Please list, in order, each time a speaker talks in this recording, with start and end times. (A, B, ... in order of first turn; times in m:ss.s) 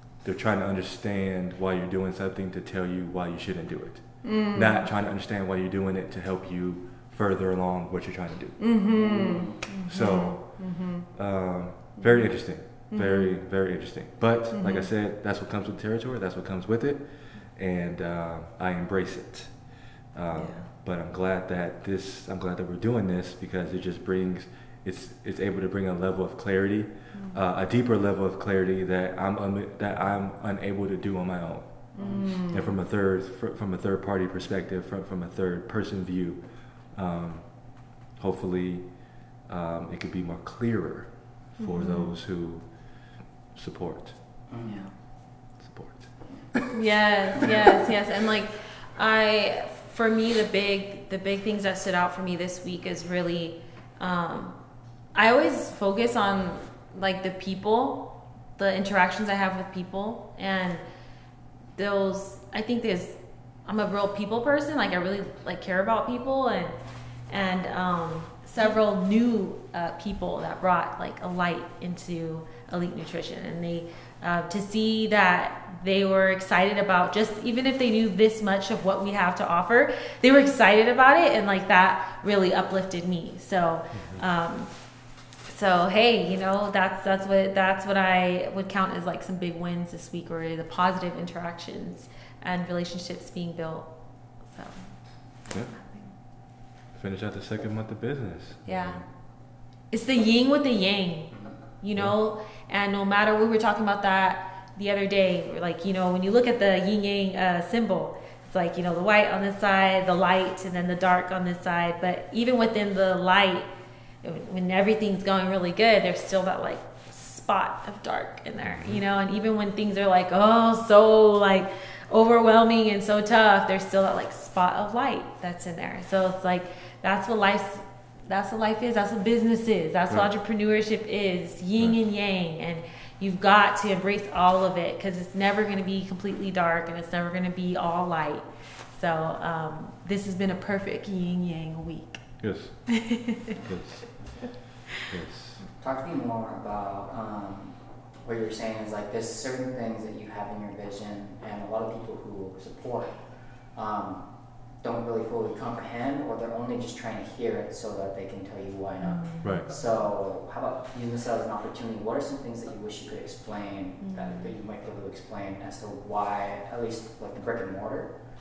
0:00.2-0:08.7 A
0:04.2-0:04.8 B
0:08.6-0:11.1 B
0:08.9-0:09.6 C
0:09.9-0:10.4 A
0:11.1-0:17.0 A
0:12.9-0:13.4 B
0:14.5-0:14.9 B
0:17.6-0:19.5 A
0:20.2-0:31.7 A
0:20.3-0:20.7 B
0:32.0-0:32.7 B
0:32.0-0:32.4 C
0:32.5-0:36.4 A
0:36.9-0:37.4 A
0:38.2-0:38.8 A
0:39.5-0:42.6 A
0:41.6-0:42.2 B
0:43.5-0:44.2 A
0:44.5-0:44.8 C
0:44.6-0:44.9 B
0:45.6-0:46.6 A
0:46.7-0:54.6 B
0:55.2-1:00.8 B
1:01.8-1:03.1 B
1:03.7-1:06.7 B
1:07.3-1:24.7 B
1:23.9-1:24.2 A
1:25.5-1:33.9 B
1:34.5-1:34.9 B
1:35.7-1:36.1 B
1:36.9-1:39.1 A
1:38.7-1:39.0 B
1:39.9-1:53.7 B
1:54.2-2:22.2 B
1:58.6-1:59.0 A
2:22.4-2:23.0 A
2:22.9-2:23.5 B
2:23.5-2:24.1 A
2:25.1-2:25.6 A
2:25.8-2:33.1 C
2:33.8-2:34.2 C
2:34.8-2:48.1 C
2:39.0-2:39.6 B
2:39.4-2:39.7 A
2:44.0-2:44.5 B